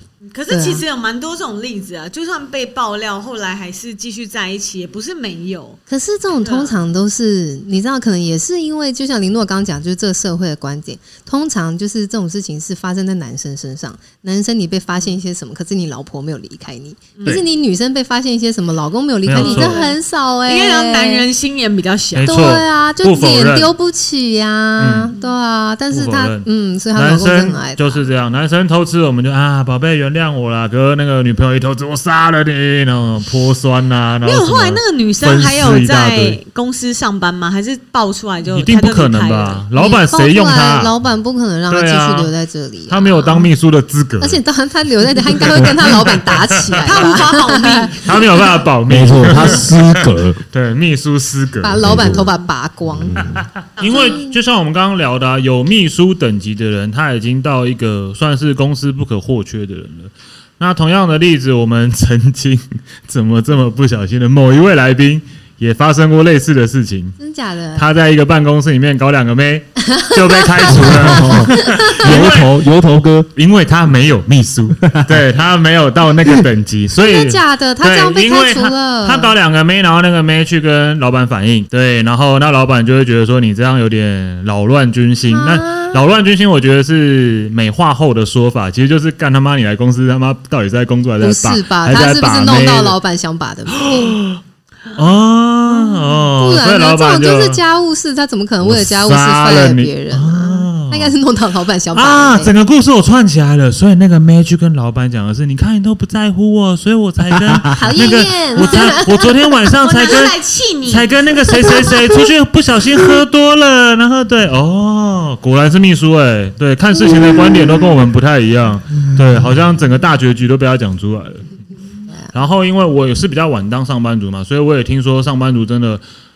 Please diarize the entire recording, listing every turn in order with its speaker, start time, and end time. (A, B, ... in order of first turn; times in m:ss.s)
0:00.3-0:05.8 A
0:00.5-0:00.8 B
0:05.9-0:21.3 B
0:06.4-0:06.8 A
0:19.2-0:19.9 C
0:19.3-0:22.4 A
0:22.1-0:23.7 C
0:22.3-0:28.0 B
0:24.8-0:25.2 C
0:25.9-0:36.4 C
0:34.2-0:39.6 A
0:38.5-0:40.9 C
0:39.8-0:43.5 B
0:41.7-0:42.3 C
0:42.9-0:44.4 C
0:44.2-0:48.2 B
0:45.3-0:46.9 C
0:46.8-0:48.2 A
0:48.0-0:52.3 C
0:48.9-0:50.4 D
0:51.6-0:54.4 B
0:51.8-0:52.3 D
0:52.9-0:53.5 D
0:53.8-1:07.2 C
0:53.8-0:54.2 A
1:07.2-1:07.9 B
1:07.8-1:12.6 C
1:09.9-1:12.1 B
1:10.7-1:13.3 D
1:13.4-1:33.0 C
1:14.8-1:15.2 D
1:17.0-1:19.3 B
1:25.3-1:26.0 B
1:31.2-1:34.2 B
1:33.7-1:34.4 C
1:35.0-1:37.6 C
1:35.7-1:42.5 B
1:38.6-1:41.2 C
1:41.9-2:01.5 C
1:47.4-1:47.6 D
1:47.7-1:49.3 B
1:49.8-1:51.2 A
1:51.7-1:52.0 B
2:02.3-2:06.0 C